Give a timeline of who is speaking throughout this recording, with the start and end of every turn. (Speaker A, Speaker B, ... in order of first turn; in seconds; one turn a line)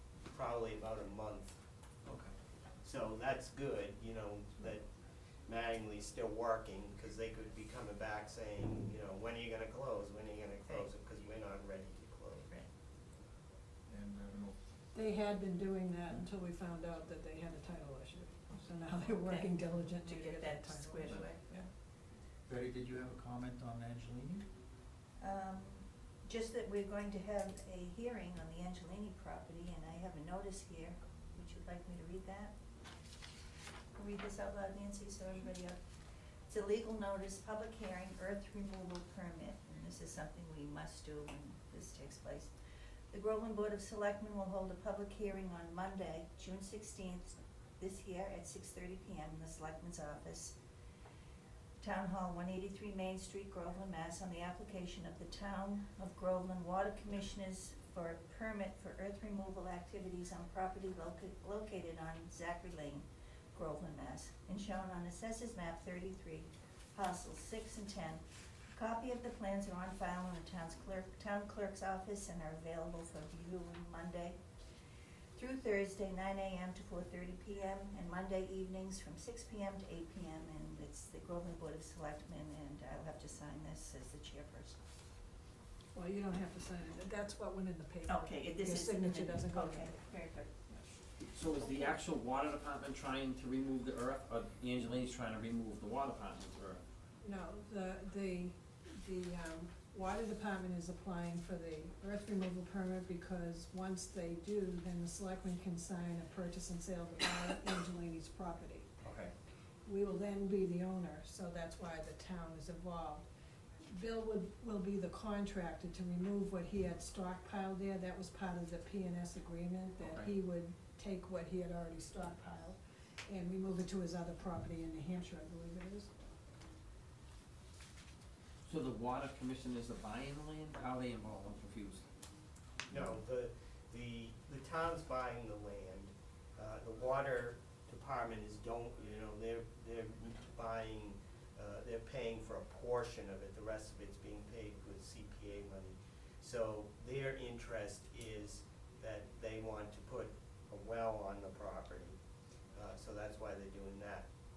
Speaker A: 0.3-1.6
Speaker A: 2.8-4.8
Speaker A: 5.5-12.5
Speaker B: 13.9-14.5
Speaker C: 14.9-21.7
Speaker D: 19.1-19.5
Speaker D: 20.0-21.6
Speaker B: 22.5-24.4
Speaker D: 25.2-32.5
Speaker D: 34.0-35.8
Speaker D: 36.5-42.5
Speaker D: 43.1-50.5
Speaker D: 51.8-74.3
Speaker D: 75.3-84.8
Speaker C: 85.9-89.9
Speaker D: 88.0-90.7
Speaker E: 91.3-96.8
Speaker D: 91.6-92.0
Speaker C: 97.2-108.9
Speaker E: 109.0-109.3
Speaker C: 109.8-113.2
Speaker C: 113.9-126.1
Speaker E: 120.0-120.3
Speaker E: 128.6-132.0
Speaker A: 132.9-152.2
Speaker A: 152.7-154.3